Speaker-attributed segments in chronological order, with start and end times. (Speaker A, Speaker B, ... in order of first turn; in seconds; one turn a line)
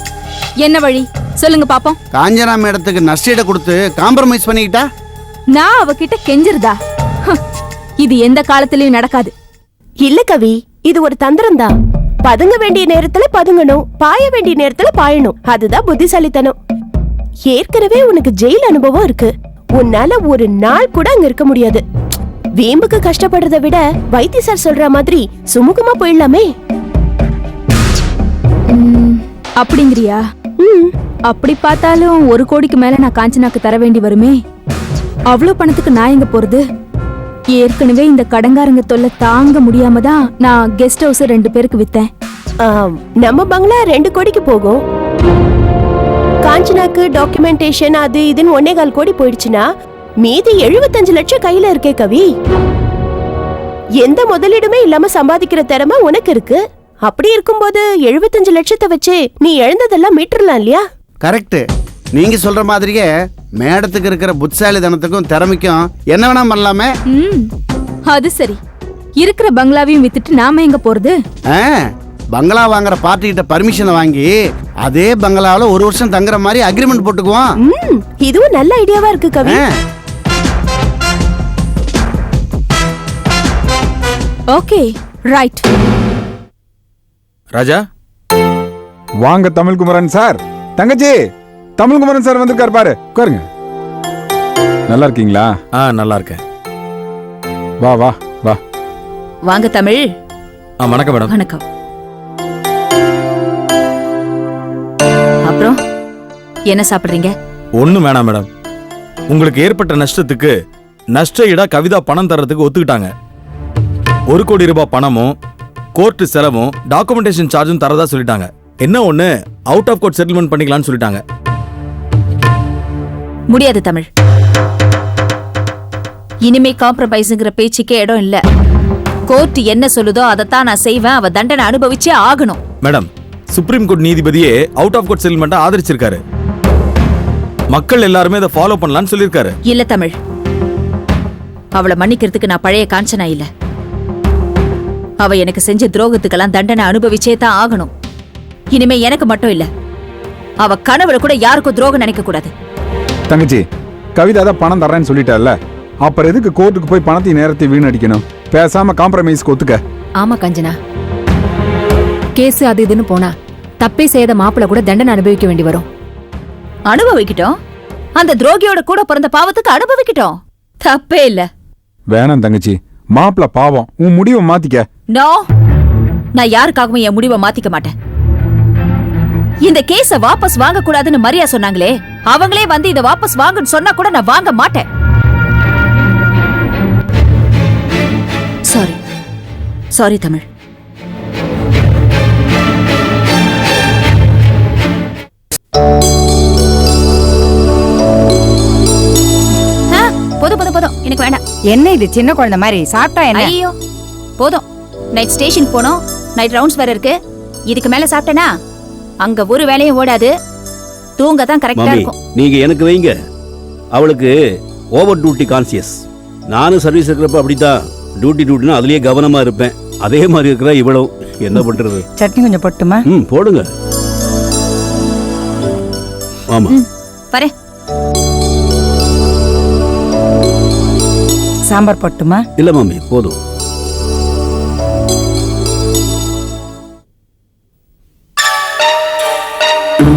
Speaker A: 0.6-2.0
Speaker B: 2.1-4.8
Speaker A: 5.5-6.7
Speaker A: 8.0-9.3
Speaker C: 10.0-11.7
Speaker C: 12.2-16.6
Speaker C: 17.5-21.8
Speaker C: 22.6-26.5
Speaker A: 28.7-30.2
Speaker C: 30.6-30.9
Speaker A: 31.3-34.4
Speaker A: 35.3-36.6
Speaker A: 37.6-42.1
Speaker C: 42.6-44.8
Speaker C: 46.4-49.6
Speaker C: 50.2-52.3
Speaker C: 54.0-60.8
Speaker B: 61.2-63.1
Speaker B: 63.6-66.9
Speaker A: 67.1-67.5
Speaker A: 68.1-68.6
Speaker A: 69.2-71.1
Speaker B: 71.5-74.3
Speaker B: 74.8-77.5
Speaker C: 77.6-79.6
Speaker B: 79.4-79.7
Speaker A: 84.5-85.6
Speaker D: 87.5-87.8
Speaker E: 89.2-91.2
Speaker E: 91.8-93.4
Speaker E: 94.9-95.5
Speaker D: 95.8-96.4
Speaker E: 97.8-98.6
Speaker F: 99.5-100.0
Speaker D: 100.8-101.3
Speaker F: 101.3-101.6
Speaker F: 105.5-105.8
Speaker F: 106.7-107.3
Speaker D: 107.8-108.5
Speaker D: 109.3-110.5
Speaker D: 111.1-113.1
Speaker D: 114.3-115.3
Speaker D: 115.9-121.2
Speaker F: 123.5-124.0
Speaker F: 126.4-128.4
Speaker F: 129.3-132.6
Speaker D: 132.8-136.2
Speaker D: 137.7-139.5
Speaker F: 139.7-140.1
Speaker F: 141.8-143.5
Speaker F: 145.2-147.9
Speaker F: 148.7-149.7
Speaker F: 150.6-152.5
Speaker E: 153.3-153.6
Speaker E: 154.2-159.8
Speaker G: 160.2-160.8
Speaker G: 162.3-165.8
Speaker F: 166.9-167.5
Speaker F: 168.2-171.5
Speaker E: 172.1-174.8
Speaker F: 175.1-175.4
Speaker F: 176.3-177.9
Speaker F: 179.6-184.8
Speaker F: 188.7-189.0
Speaker F: 189.9-190.4
Speaker F: 199.9-201.4
Speaker H: 201.7-203.5
Speaker F: 203.3-203.7
Speaker F: 204.4-207.2
Speaker F: 207.7-208.5
Speaker F: 209.2-210.3
Speaker F: 211.2-212.1
Speaker I: 211.8-213.2
Speaker I: 213.9-214.3
Speaker I: 214.9-222.0
Speaker H: 222.2-223.0
Speaker I: 223.1-223.7
Speaker F: 226.7-227.5
Speaker H: 231.7-232.4
Speaker I: 232.6-233.4